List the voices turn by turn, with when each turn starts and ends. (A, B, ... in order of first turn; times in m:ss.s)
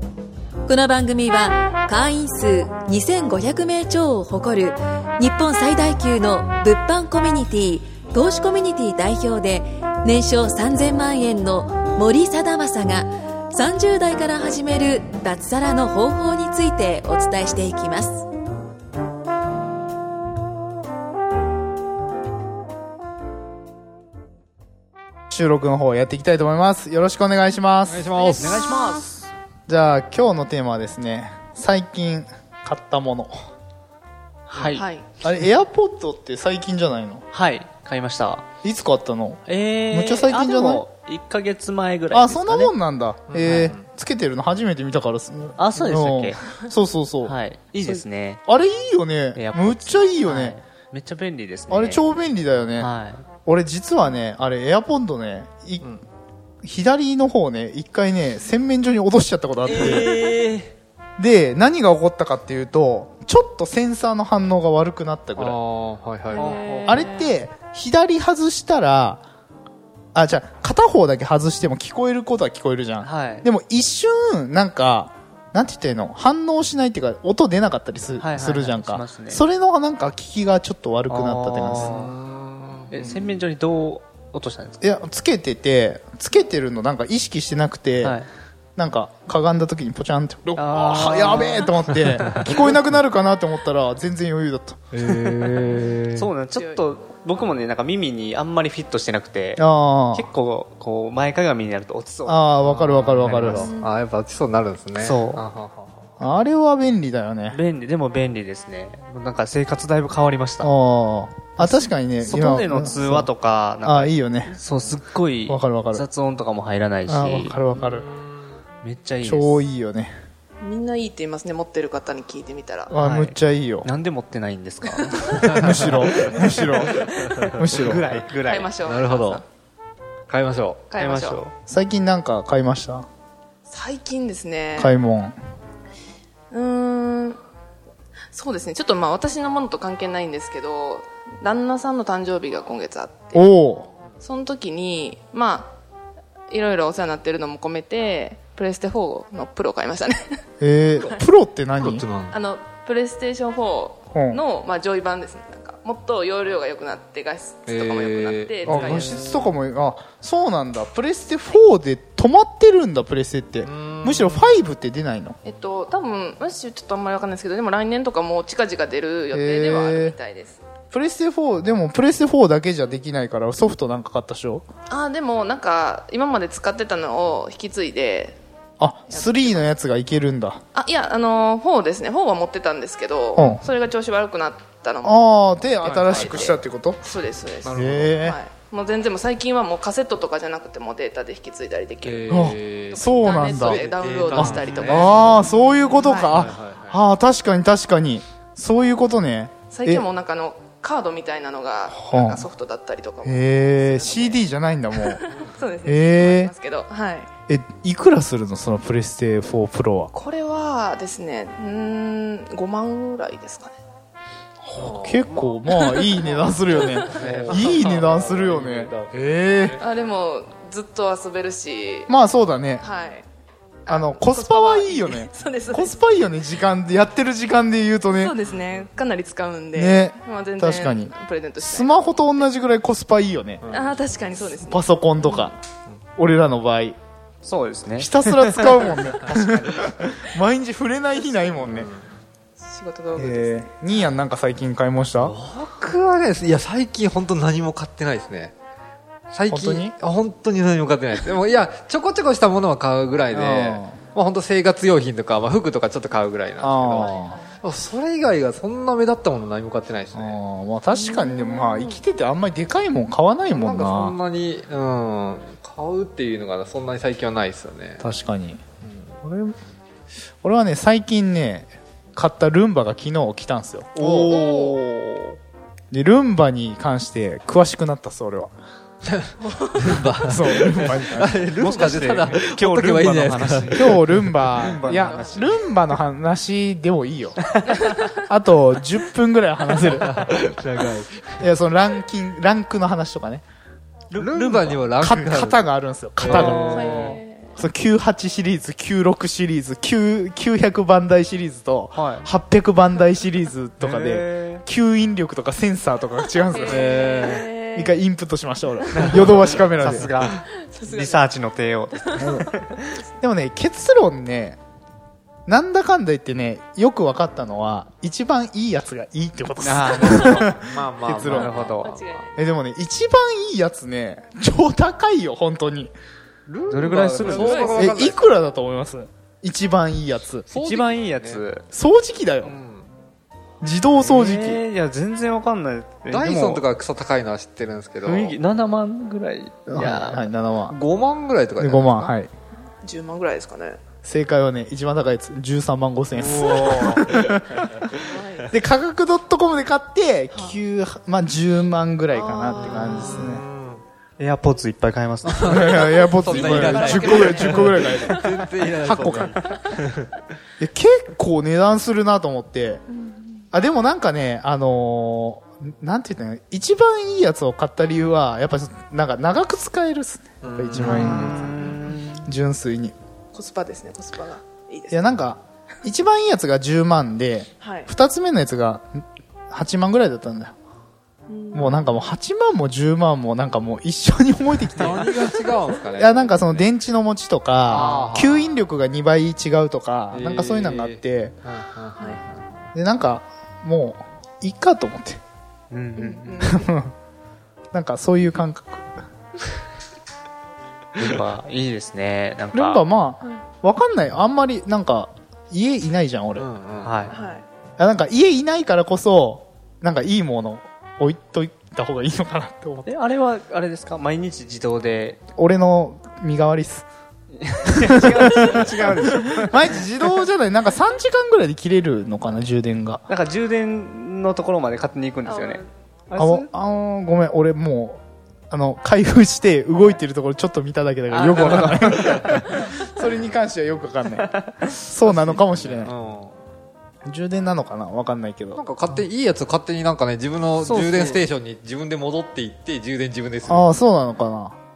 0:00.7-0:18.2 A
0:25.3-0:28.6 B
0:27.9-0:29.1 C
0:28.2-0:29.3 D
0:29.7-0:33.3 B
0:34.5-0:34.9 D
0:34.7-0:35.1 E
0:35.2-0:37.3 B
0:37.3-0:38.5 D
0:38.6-0:40.9 B
0:39.5-0:42.8 D
0:42.1-0:50.6 B
0:43.3-0:43.8 C
0:43.4-0:43.7 D
0:45.6-0:46.4 D
0:47.2-0:48.4 D
0:49.3-0:52.1 D
0:51.7-0:52.9 B
0:52.8-0:53.2 D
0:53.5-0:56.0 B
0:56.6-1:00.2 B
0:59.7-1:00.1 C
0:59.7-1:00.7 D
1:01.2-1:05.6 B
1:05.4-1:06.8 C
1:06.4-1:07.2 E
1:06.4-1:07.2 D
1:06.8-1:09.2 B
1:10.2-1:22.1 B
1:13.0-1:13.5 D
1:18.2-1:19.4 D
1:21.1-1:22.1 D
1:21.7-1:23.3 C
1:22.9-1:24.9 D
1:24.8-1:28.2 B
1:28.0-1:28.3 D
1:28.8-1:34.8 B
1:30.6-1:31.9 D
1:34.9-1:36.3 C
1:35.0-1:42.5 D
1:36.5-1:36.8 E
1:39.6-1:40.3 B
1:42.3-1:43.7 B
1:42.6-1:46.1 C
1:43.5-1:43.9 E
1:45.0-1:45.4 D
1:46.2-1:47.6 B
1:47.5-1:50.7 D
1:50.6-1:53.3 B
1:51.6-1:57.6 D
1:53.8-1:54.6 B
1:55.5-1:56.1 B
1:57.1-1:58.1 B
1:57.7-1:58.6 C
1:58.8-1:59.6 D
1:59.2-2:00.1 B
2:00.6-2:02.9 E
2:02.9-2:03.9 B
2:03.0-2:08.7 D
2:05.1-2:05.5 E
2:05.4-2:06.0 C
2:05.5-2:08.1 B
2:06.2-2:07.4 E
2:08.4-2:09.4 E
2:08.8-2:09.4 C
2:10.3-2:10.8 C
2:10.9-2:11.4 E
2:11.0-2:11.5 D
2:11.7-2:13.1 B
2:13.7-2:14.9 E
2:14.8-2:15.4 B
2:16.5-2:17.4 E
2:18.3-2:23.5 E
2:23.3-2:23.9 B
2:24.2-2:25.8 E
2:26.5-2:30.2 E
2:30.6-2:32.1 B
2:31.8-2:32.4 C
2:32.3-2:39.3 E
2:34.1-2:34.4 B
2:37.7-2:39.5 C
2:38.7-2:45.4 B
2:43.6-2:44.6 C
2:45.4-2:50.6 E
2:49.3-2:50.2 B
2:50.9-2:54.6 B
2:54.9-2:58.4 E
2:58.8-3:00.6 B
2:59.1-2:59.7 E
3:00.7-3:05.2 E
3:03.4-3:03.6 B
3:05.0-3:07.0 B
3:05.8-3:16.4 E
3:05.8-3:06.5 C
3:07.6-3:08.2 C
3:07.7-3:08.4 B
3:12.0-3:17.0 C
3:12.3-3:20.0 B
3:19.7-3:24.4 E
3:21.9-3:22.5 B
3:23.2-3:25.2 B
3:25.0-3:27.3 E
3:25.8-3:26.5 B
3:27.5-3:30.1 B
3:30.1-3:33.8 E
3:34.6-3:39.8 B
3:34.8-3:35.4 C
3:35.7-3:37.6 E
3:36.7-3:39.9 C
3:39.8-3:42.1 E
3:42.1-3:42.8 B
3:42.8-3:43.2 E
3:43.9-3:46.0 E
3:43.9-3:48.4 B
3:48.2-3:52.5 E
3:48.4-3:48.9 C
3:49.8-3:53.6 B
3:53.6-3:54.0 C
3:53.7-3:55.5 E
3:54.5-3:55.6 B
3:56.2-3:57.0 B
3:57.4-3:59.8 D
3:58.0-4:01.9 B
4:01.2-4:01.7 E
4:01.6-4:02.1 C
4:02.6-4:04.2 E
4:03.2-4:05.3 B
4:05.2-4:08.5 C
4:09.3-4:20.4 C
4:09.5-4:10.0 B
4:13.3-4:14.0 B
4:16.6-4:17.4 B
4:17.0-4:17.5 E
4:20.1-4:24.2 B
4:20.9-4:22.0 E
4:23.5-4:28.0 C
4:28.0-4:28.6 B
4:28.8-4:29.1 C
4:29.2-4:29.5 B
4:30.4-4:34.4 B
4:34.0-4:35.4 D
4:34.3-4:34.8 E
4:35.9-4:38.5 B
4:39.0-4:44.8 C
4:40.2-4:41.5 B
4:41.6-4:44.0 D
4:43.7-4:50.5 B
4:44.6-4:45.7 D
4:44.8-4:45.5 E
4:47.7-4:48.2 E
4:50.1-4:51.4 C
4:51.4-4:53.4 B
4:54.1-4:54.9 D
4:54.2-4:55.6 C
4:55.0-5:07.1 B
4:56.2-4:57.2 C
4:56.3-4:57.1 D
4:56.5-4:57.6 E
5:01.9-5:02.3 D
5:03.8-5:04.6 D
5:06.5-5:08.0 E
5:06.7-5:07.5 C
5:07.7-5:10.1 B
5:09.0-5:12.8 D
5:10.6-5:11.3 E
5:12.1-5:13.0 E
5:12.2-5:12.5 B
5:13.2-5:14.6 B
5:15.5-5:21.7 B
5:19.6-5:20.5 D
5:19.8-5:22.2 C
5:21.3-5:22.0 D
5:21.3-5:22.3 E
5:22.4-5:25.9 B
5:26.5-5:28.4 C
5:26.7-5:27.8 D
5:27.2-5:27.9 E
5:27.2-5:30.5 B
5:30.5-5:31.4 C
5:30.6-5:31.6 D
5:31.7-5:32.6 B
5:32.4-5:32.9 C
5:33.6-5:34.6 B
5:34.0-5:36.6 D
5:36.1-5:38.4 C
5:38.0-5:40.3 D
5:39.7-5:40.8 B
5:40.7-5:42.1 C
5:41.6-5:42.3 B
5:42.8-5:43.8 E
5:44.0-5:48.0 B
5:46.2-5:47.4 C
5:46.2-5:47.0 D
5:47.9-5:48.5 E
5:48.5-5:53.4 B
5:50.3-5:50.6 E
5:52.1-5:53.3 E
5:52.7-5:53.8 C
5:54.2-5:56.4 D
5:55.2-6:00.1 C
5:55.4-5:59.4 B
5:56.1-5:58.4 E
6:00.6-6:02.8 B
6:03.0-6:03.4 E
6:03.5-6:13.0 B
6:10.4-6:11.2 C
6:10.8-6:12.3 D
6:10.8-6:12.0 E
6:13.3-6:15.2 E
6:14.9-6:20.5 B
6:17.6-6:17.9 E
6:21.3-6:21.8 E
6:21.5-6:31.4 B
6:24.8-6:26.7 C
6:27.7-6:28.6 C
6:27.7-6:28.2 D
6:30.1-6:32.5 C
6:32.7-6:35.2 B
6:35.7-6:36.3 D
6:36.0-6:36.7 E
6:36.4-6:36.9 B
6:37.7-6:38.9 B
6:41.0-6:42.8 D
6:42.5-6:46.5 B
6:46.4-6:47.1 C
6:46.8-6:47.2 D
6:47.1-6:47.4 E
6:47.8-6:52.9 B
6:52.8-6:55.2 D
6:55.4-6:56.9 B
6:57.4-6:59.8 D
6:57.8-7:03.1 B
7:03.1-7:06.5 D
7:05.3-7:05.6 E
7:06.2-7:15.9 B
7:11.1-7:12.5 D
7:11.3-7:12.5 C
7:14.2-7:14.7 D
7:15.0-7:16.4 C
7:17.0-7:18.6 B
7:18.6-7:23.7 C
7:20.6-7:21.3 D
7:23.5-7:24.6 B